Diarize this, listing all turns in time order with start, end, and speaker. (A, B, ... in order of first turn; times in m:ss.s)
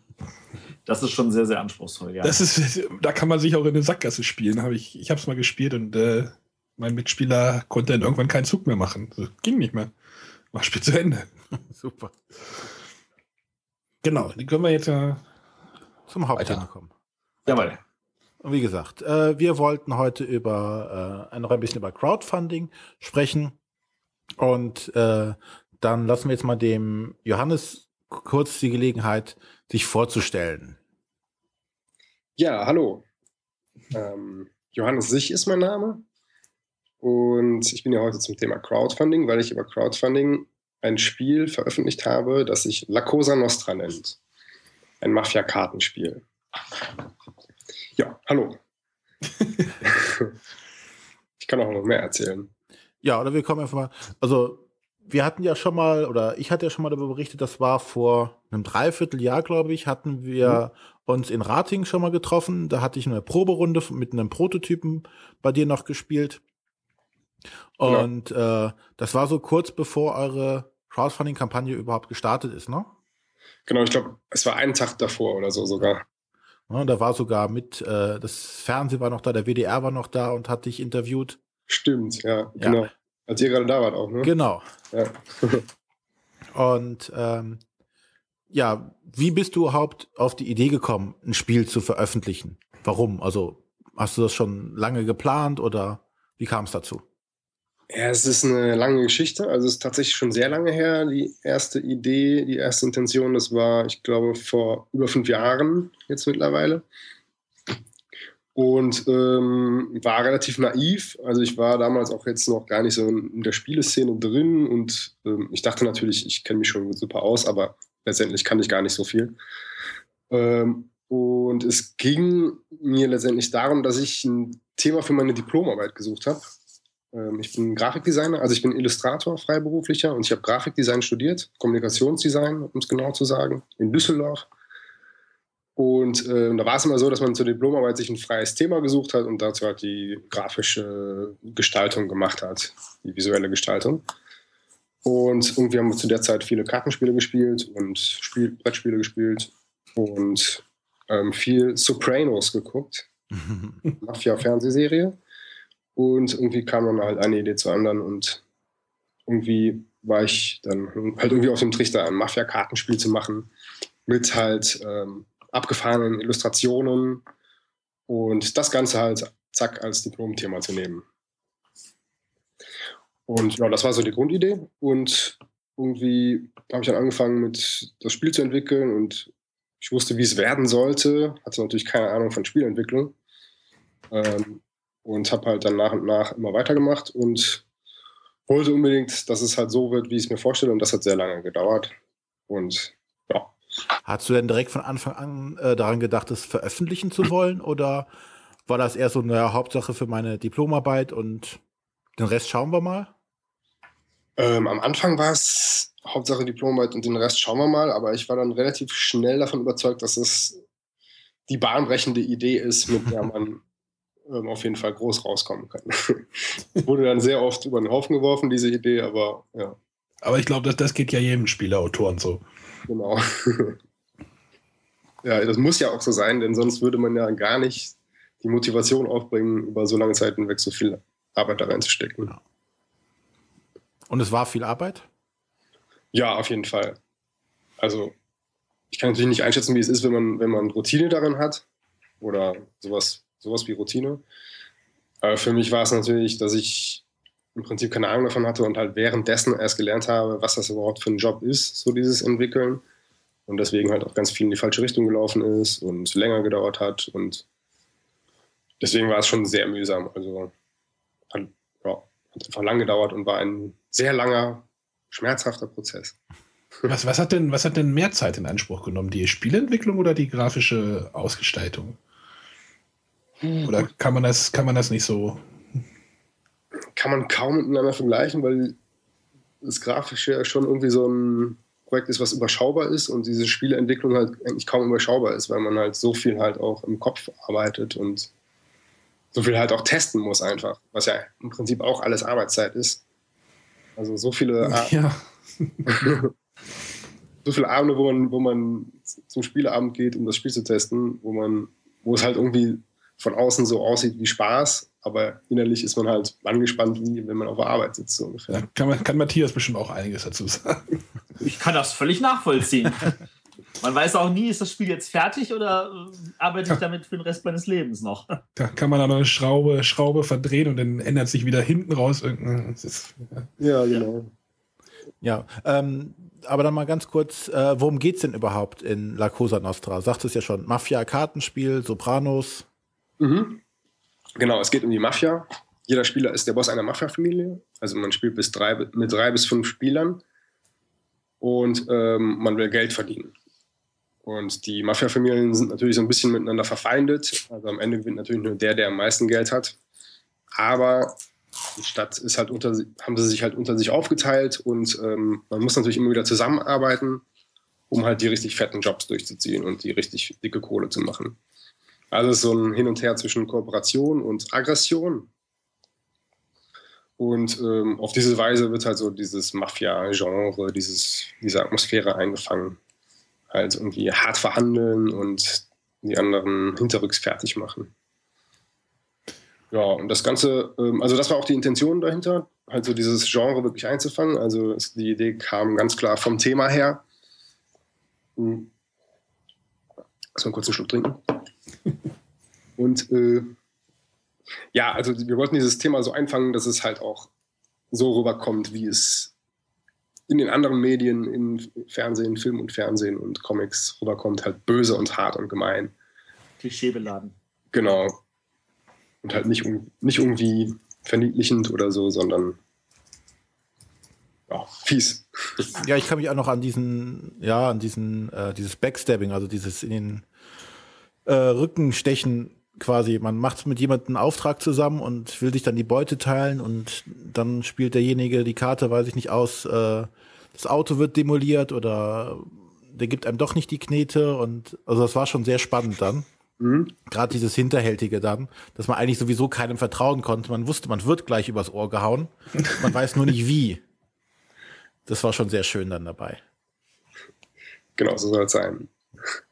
0:00.9-0:02.4 A
0:02.2-0:09.9 B
0:10.5-0:11.3 B
0:11.7-0:12.1 C
0:14.0-0:15.2 B
0:16.1-0:16.9 C
0:16.4-0:16.6 B
0:17.5-0:17.8 A
0:17.5-0:17.7 C
0:18.4-0:23.6 C
0:24.4-0:30.8 C
0:32.4-0:33.0 D
0:33.9-0:36.0 D
0:37.0-0:44.2 D
0:45.0-0:46.2 D
0:48.0-0:48.6 D
0:49.8-0:50.3 D
0:51.4-0:52.5 D
0:53.0-1:06.4 C
1:07.8-1:12.9 C
1:13.7-1:16.0 D
1:16.7-1:21.4 C
1:21.7-1:24.3 D
1:24.2-1:24.6 C
1:24.9-1:25.6 D
1:26.5-1:27.6 C
1:28.5-1:37.0 C
1:37.9-1:46.8 D
1:48.6-1:59.4 D
2:00.3-2:06.5 D
2:07.1-2:14.5 D
2:15.8-2:24.0 D
2:25.0-2:33.1 D
2:33.4-2:33.8 C
2:34.0-2:35.2 D
2:36.0-2:38.4 D
2:39.3-2:43.5 D
2:44.1-2:47.2 D
2:48.1-2:51.0 D
2:53.3-2:59.3 D
2:59.8-3:03.1 D
3:04.1-3:07.6 D
3:08.5-3:11.9 D
3:12.5-3:13.5 D
3:14.1-3:18.1 C
3:18.7-3:21.6 C
3:22.2-3:23.1 C
3:24.4-3:30.6 D
3:31.5-3:33.6 D
3:34.3-3:39.8 D
3:40.2-3:42.4 B
3:42.9-3:43.8 D
3:45.2-3:52.3 D
3:54.1-3:55.1 C
3:56.1-3:57.0 D
3:57.8-3:58.1 D
3:58.9-4:01.6 D
4:02.2-4:04.2 D
4:05.2-4:07.0 D
4:07.6-4:12.8 D
4:13.5-4:17.4 D
4:18.8-4:20.5 D
4:21.3-4:26.2 D
4:26.9-4:32.0 B
4:33.5-4:35.4 B
4:37.0-4:38.8 D
4:39.6-4:48.3 D
4:49.3-4:53.0 D
4:54.0-4:54.9 D
4:54.6-4:56.1 B
4:55.9-4:56.3 D
4:57.4-5:08.6 D
5:08.5-5:11.0 B
5:11.4-5:13.2 A
5:13.8-5:18.4 A
5:18.6-5:23.5 B
5:23.6-5:24.3 D
5:25.2-5:32.7 C
5:33.2-5:33.6 D
5:34.4-5:40.2 D
5:41.4-5:43.3 D
5:44.2-5:49.8 D
5:50.6-5:51.2 D
5:51.8-5:57.2 D
5:57.9-6:01.4 D
6:02.1-6:05.3 D
6:07.2-6:12.8 D
6:13.5-6:17.9 D
6:19.7-6:27.0 D
6:28.4-6:28.7 D
6:30.4-6:31.2 D
6:32.8-6:33.5 D
6:34.7-6:37.3 D
6:37.9-6:39.3 D
6:40.3-6:45.9 D
6:46.6-6:47.4 A
6:47.7-6:48.2 D
6:49.2-6:52.6 D
6:54.5-6:55.7 D
6:55.8-7:00.2 C
7:01.3-7:16.3 C
7:16.6-7:16.9 D
7:17.1-7:23.8 C
7:25.1-7:26.4 C
7:28.0-7:28.9 D